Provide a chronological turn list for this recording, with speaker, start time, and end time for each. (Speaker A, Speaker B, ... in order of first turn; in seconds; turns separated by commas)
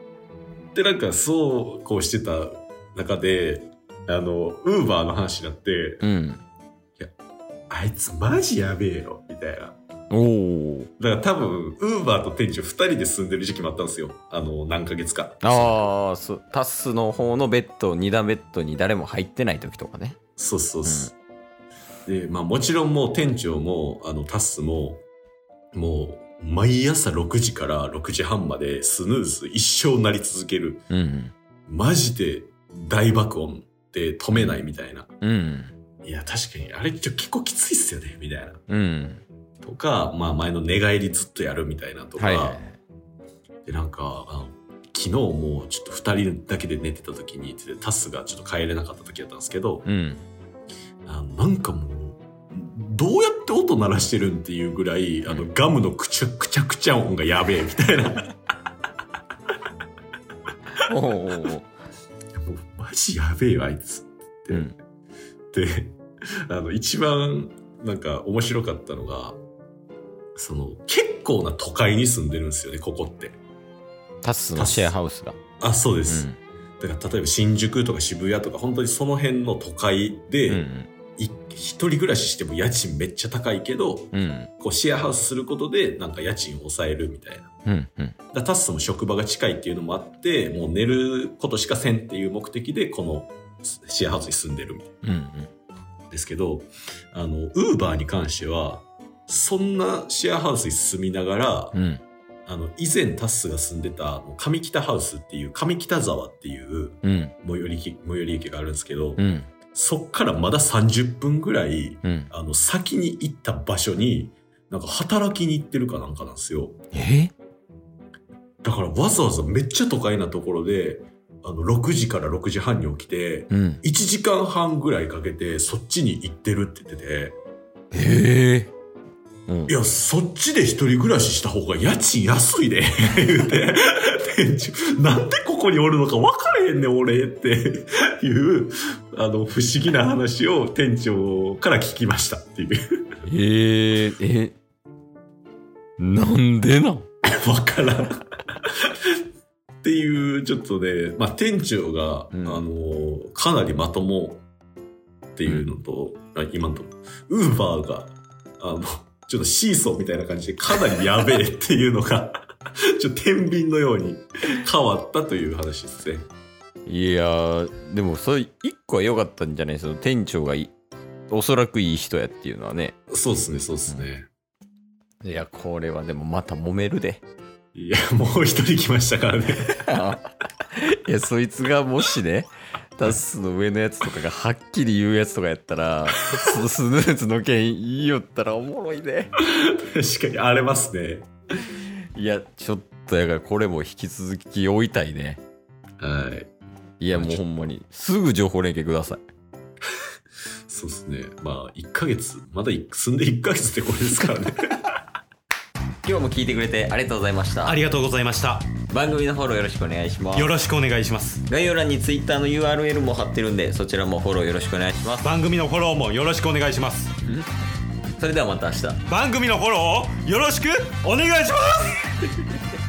Speaker A: 0.7-6.0, Speaker B: 6.0-6.4, Speaker A: 7.7-9.8, Speaker B: 10.1-10.9, Speaker A: 11.0-15.9, Speaker B: 15.4-20.2, Speaker A: 20.4-21.1, Speaker B: 20.8-21.1, Speaker A: 22.1-25.0, Speaker A: 25.7-30.8, Speaker B: 30.9-31.3, Speaker A: 31.7-35.1, Speaker B: 34.3-34.6, Speaker B: 35.2-35.7, Speaker A: 36.0-38.6, Speaker B: 38.7-39.2, Speaker A: 39.6-42.6, Speaker B: 42.2-42.8, Speaker A: 43.6-49.8, Speaker B: 49.8-50.2, Speaker A: 51.0-58.2, Speaker B: 60.8-61.7, Speaker A: 62.4-64.7, Speaker B: 64.5-64.8, Speaker A: 65.5-69.4, Speaker A: 70.4-73.4, Speaker B: 74.2-75.4, Speaker A: 74.5-74.9, Speaker A: 75.6-76.3, Speaker B: 76.1-76.4, Speaker A: 76.8-87.5, Speaker B: 80.5-80.9, Speaker B: 84.1-84.5, Speaker B: 87.7-88.2, Speaker A: 88.3-95.0, Speaker B: 95.0-95.5, Speaker A: 96.1-101.7, Speaker B: 101.7-102.0, Speaker A: 102.5-116.8, Speaker B: 107.0-107.3, Speaker B: 109.2-109.5, Speaker B: 112.0-112.3, Speaker B: 116.9-117.3, Speaker A: 118.6-127.3, Speaker B: 123.5-123.8, Speaker B: 127.9-128.7, Speaker B: 129.5-129.7, Speaker A: 129.7-143.0, Speaker B: 143.3-144.6, Speaker B: 146.0-147.1, Speaker A: 147.3-148.2, Speaker A: 149.8-154.4, Speaker B: 152.3-152.6, Speaker A: 155.3-166.3, Speaker B: 166.8-170.7, Speaker B: 171.3-172.9, Speaker A: 173.1-174.3, Speaker B: 175.2-177.2, Speaker A: 177.7-179.8, Speaker B: 179.8-180.3, Speaker B: 180.8-189.3, Speaker A: 189.4-191.3, Speaker B: 192.1-195.4, Speaker A: 196.0-196.5, Speaker B: 197.0-199.2, Speaker A: 197.1-197.4, Speaker A: 200.7-204.6, Speaker B: 206.0-207.8, Speaker C: 207.6-208.7, Speaker B: 208.9-210.5, Speaker C: 210.3-211.4, Speaker B: 211.4-215.3, Speaker C: 215.2-217.2, Speaker B: 218.2-219.0, Speaker C: 219.1-222.1